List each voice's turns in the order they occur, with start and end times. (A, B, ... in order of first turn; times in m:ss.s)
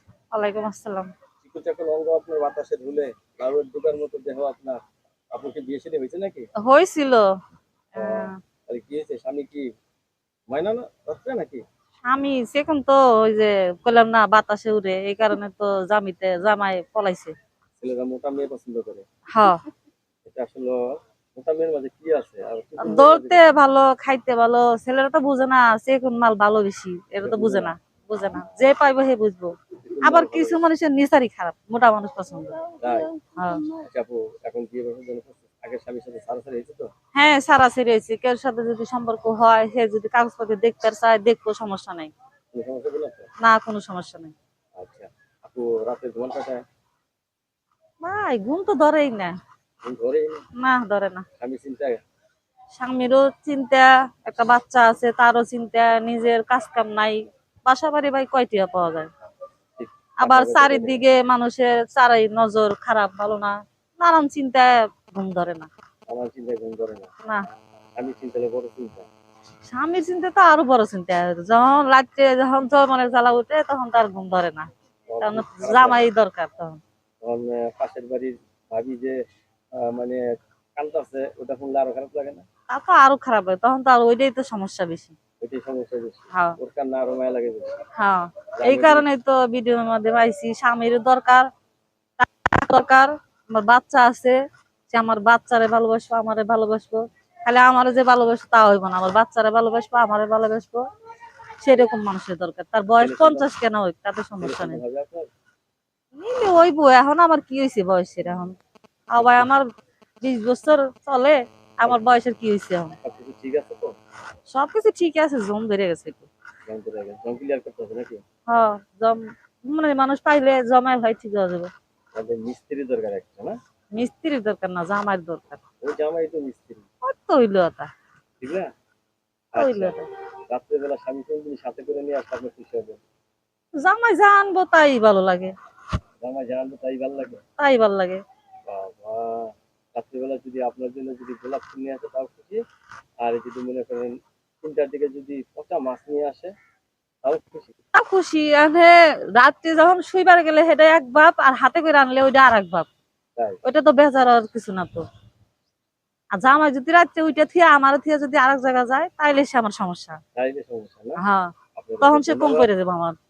0:00.3-0:01.1 A
0:01.4-0:04.8 B
0:05.3-0:06.5 B
0:06.6-0:07.3 A
0:07.9-0:08.4 A
0:08.0-0:09.6 B
0:10.5-0:11.6 B
0:12.0-0:17.3 A
0:17.8-0:19.0 B
0:19.3-0:19.6 A
0:20.2-0:23.6 B
0:22.8-0:32.7 A
0:27.2-0:27.7 B
0:29.8-0:30.6 B
0:32.8-0:33.2 B
0:33.3-0:33.7 A
0:33.8-0:36.9 B
0:37.2-0:42.1 A
0:42.5-0:43.3 B
0:43.4-0:44.3 A
0:44.8-0:46.6 B
0:48.0-0:49.4 A
0:49.8-0:50.4 B
0:50.6-0:51.2 A
0:51.4-0:52.0 B
0:52.8-0:59.1 A
0:59.8-1:01.0 B
1:00.2-1:05.7 A
1:06.1-1:07.1 B
1:08.0-1:09.1 B
1:09.7-1:14.7 A
1:15.1-1:16.1 B
1:15.2-1:16.8 A
1:17.2-1:19.2 B
1:19.7-1:20.2 B
1:20.8-1:22.4 B
1:22.7-1:25.2 A
1:25.4-1:27.7 B
1:26.3-1:26.6 A
1:28.0-1:31.5 A
1:28.6-1:29.1 B
1:32.2-1:34.4 A
1:34.9-1:40.9 A
1:41.6-1:44.8 A
1:43.0-1:43.5 B
1:44.4-1:45.3 B
1:46.1-1:48.6 A
1:49.1-1:49.7 A
1:49.2-1:49.5 B
1:50.2-1:53.0 A
1:53.0-1:54.0 B
1:54.5-1:56.3 A
1:56.7-1:58.2 B
1:58.5-2:01.7 A
2:02.1-2:03.6 B
2:03.9-2:05.6 A
2:05.8-2:06.8 B
2:07.0-2:07.9 A
2:08.4-2:08.7 B
2:09.5-2:09.9 B
2:09.6-2:10.1 A
2:10.5-2:13.0 B
2:13.8-2:15.5 A
2:16.2-2:17.4 B
2:17.6-2:18.2 A
2:18.7-2:22.6 B
2:23.2-2:26.5 B
2:27.2-2:27.7 B
2:27.9-2:32.9 A
2:33.6-2:35.0 A
2:36.3-2:40.2 A
2:40.3-2:41.2 B
2:41.2-2:43.2 A
2:41.8-2:42.7 B